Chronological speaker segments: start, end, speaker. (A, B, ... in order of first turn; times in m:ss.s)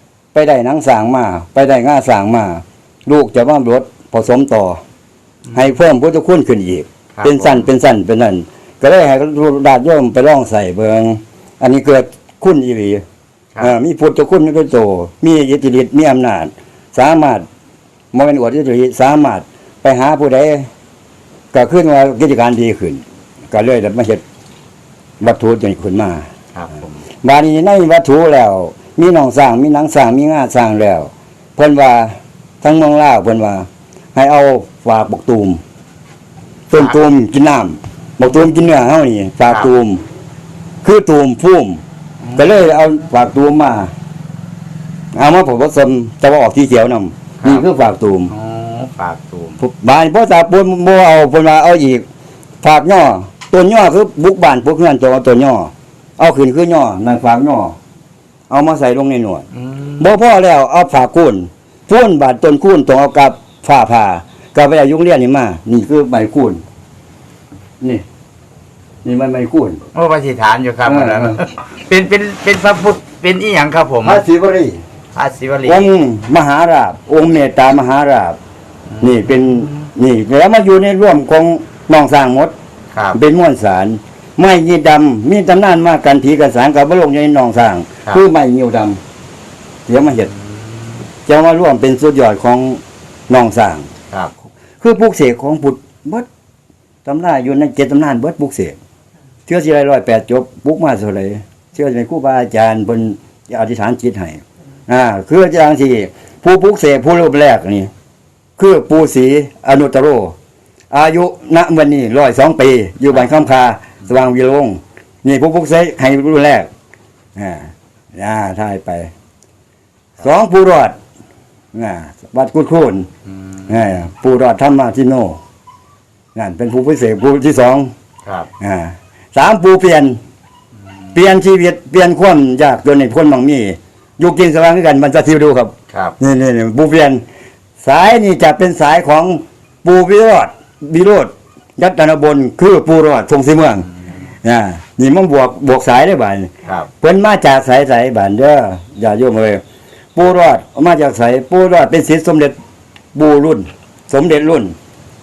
0:00.3-0:04.8 A
0:05.4-0:05.8 B
0:05.5-0:13.0 A
0:07.1-0:07.7 B
0:13.6-0:17.4 A
0:18.1-0:20.7 A
0:21.5-0:24.2 A
0:25.2-0:26.3 A
0:26.5-0:27.0 B
0:27.2-0:35.6 A
0:36.7-0:40.0 A
0:36.7-0:37.1 B
0:39.4-0:39.7 B
0:40.8-0:41.8 A
0:42.2-0:42.5 B
0:42.4-0:43.9 A
0:45.1-0:48.3 A
0:47.4-0:47.7 B
0:48.3-0:49.6 B
0:49.6-0:52.1 A
0:52.6-0:57.8 A
0:58.5-1:06.6 A
0:59.5-1:00.1 B
1:07.8-1:08.0 A
1:09.0-1:09.8 A
1:09.9-1:14.2 B
1:10.8-1:11.4 A
1:14.0-1:14.8 A
1:15.1-1:15.9 B
1:15.6-1:18.4 A
1:18.9-1:19.9 B
1:19.0-1:22.5 A
1:22.9-1:23.2 B
1:23.1-1:29.0 A
1:29.9-1:30.3 A
1:30.2-1:31.1 B
1:31.3-1:33.9 A
1:34.8-1:36.3 A
1:37.0-1:38.8 A
1:39.5-1:47.9 A
1:48.6-1:50.4 A
1:50.9-1:56.7 A
1:57.4-1:59.1 A
2:00.2-2:01.0 A
2:01.7-2:03.1 A
2:03.3-2:03.8 B
2:03.7-2:05.4 A
2:06.4-2:07.9 A
2:08.2-2:08.5 B
2:08.6-2:10.2 A
2:10.8-2:11.2 B
2:11.1-2:17.2 A
2:15.9-2:16.2 B
2:17.8-2:29.6 A
2:26.6-2:26.9 B
2:30.2-2:32.6 A
2:33.1-2:34.8 A